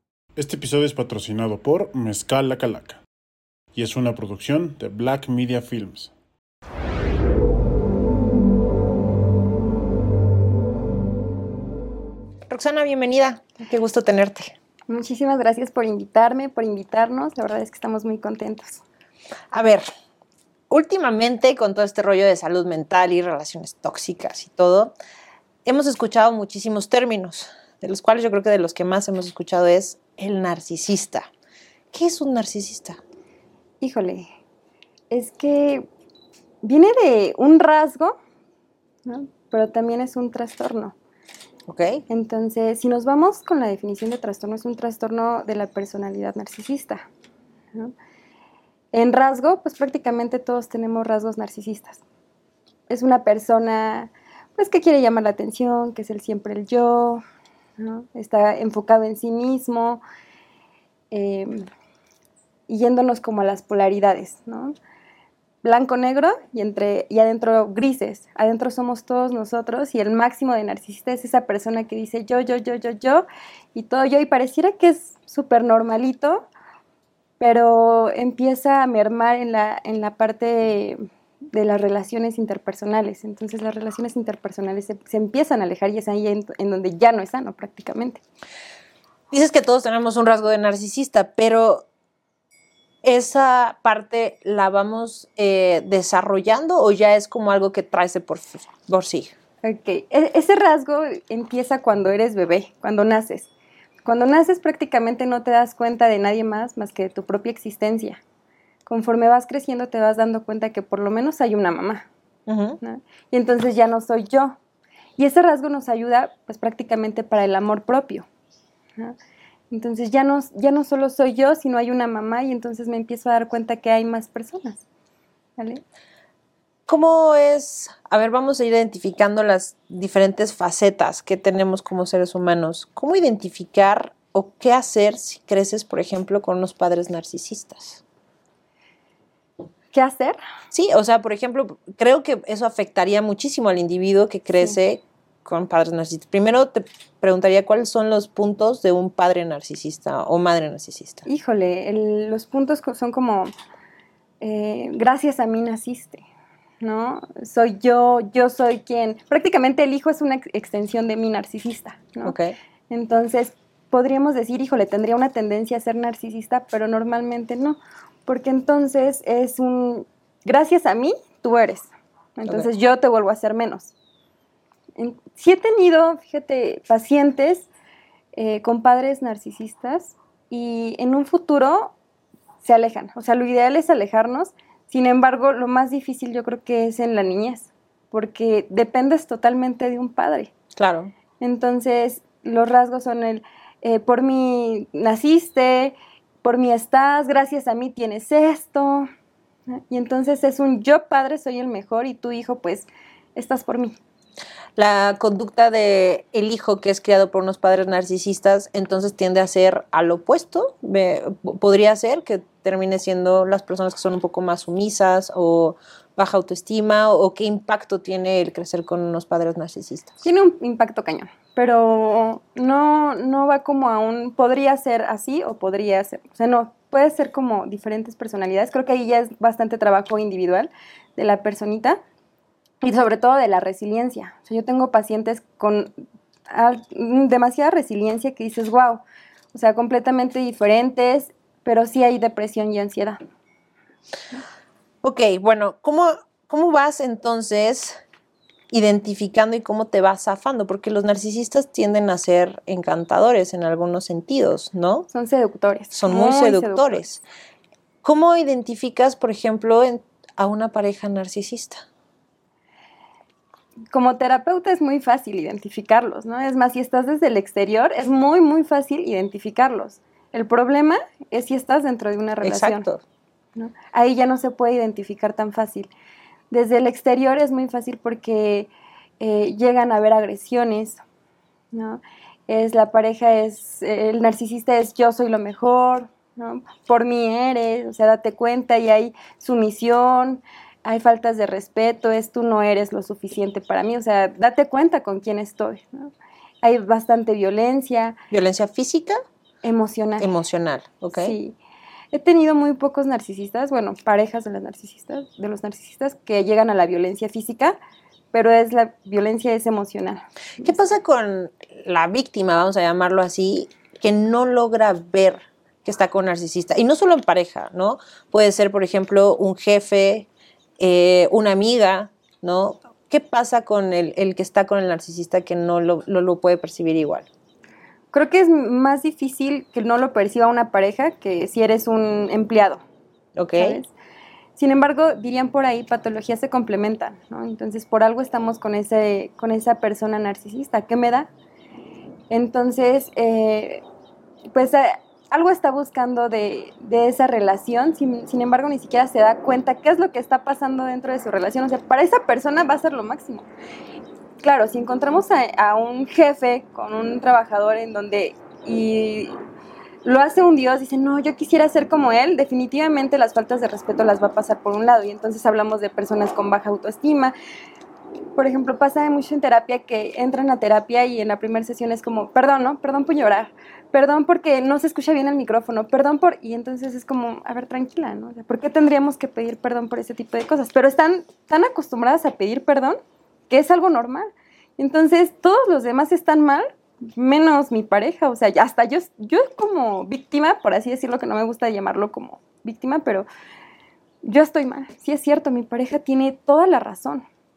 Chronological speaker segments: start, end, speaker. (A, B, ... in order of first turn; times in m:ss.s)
0:00.4-0:03.0 A
0:03.7-0:06.1 A
0:12.5-0:14.5 B
0:14.9-0:18.8 C
0:19.5-0:19.8 B
0:20.7-0:24.9 B
0:25.6-0:31.3 B
0:31.9-0:33.0 B
0:33.8-0:34.3 C
0:35.1-0:35.9 C
0:36.6-0:38.2 C
0:39.0-0:40.9 C
0:41.7-0:42.0 B
0:42.1-0:47.1 C
0:48.9-0:52.0 C
0:52.9-0:57.2 C
0:57.8-1:00.0 C
1:01.1-1:01.7 C
1:02.7-1:04.7 C
1:05.6-1:16.5 C
1:17.4-1:21.0 C
1:21.5-1:28.2 C
1:29.3-1:31.8 B
1:33.0-1:39.3 B
1:39.6-1:43.5 C
1:44.0-1:48.2 C
1:48.8-1:52.1 C
1:52.5-1:52.8 B
1:52.8-1:54.6 C
1:55.2-1:58.3 C
1:59.7-2:04.8 C
2:05.6-2:05.8 C
2:06.9-2:18.0 B
2:19.9-2:20.4 C
2:20.7-2:31.2 B
2:31.2-2:33.5 C
2:34.4-2:36.2 C
2:36.8-2:42.4 C
2:42.2-2:42.6 B
2:42.9-2:53.9 C
2:55.0-2:57.7 C
2:58.3-3:01.9 C
3:02.6-3:10.5 C
3:10.8-3:11.1 B
3:11.4-3:19.1 C
3:19.7-3:24.0 C
3:24.8-3:40.2 B
3:40.2-3:52.0 C
3:52.8-3:55.9 C
3:56.5-4:03.2 C
4:05.0-4:08.0 B
4:08.7-4:15.1 B
4:15.1-4:17.0 C
4:15.9-4:17.2 B
4:18.0-4:21.8 B
4:23.9-4:32.9 C
4:32.4-4:33.0 B
4:33.6-4:35.9 C
4:36.5-4:41.0 C
4:41.7-4:58.2 C
4:58.3-4:59.2 B
4:59.6-5:00.3 C
5:00.2-5:01.4 B
5:01.1-5:01.6 C
5:02.1-5:07.8 C
5:08.3-5:10.7 C
5:10.6-5:20.3 B
5:20.8-5:27.3 B
5:28.1-5:32.8 C
5:33.4-5:33.8 B
5:33.6-5:33.9 C
5:34.6-5:41.3 C
5:42.3-5:43.8 C
5:44.5-5:53.4 C
5:54.4-5:59.4 C
6:00.0-6:07.3 C
6:08.3-6:24.3 C
6:24.8-6:33.3 C
6:34.2-6:37.2 C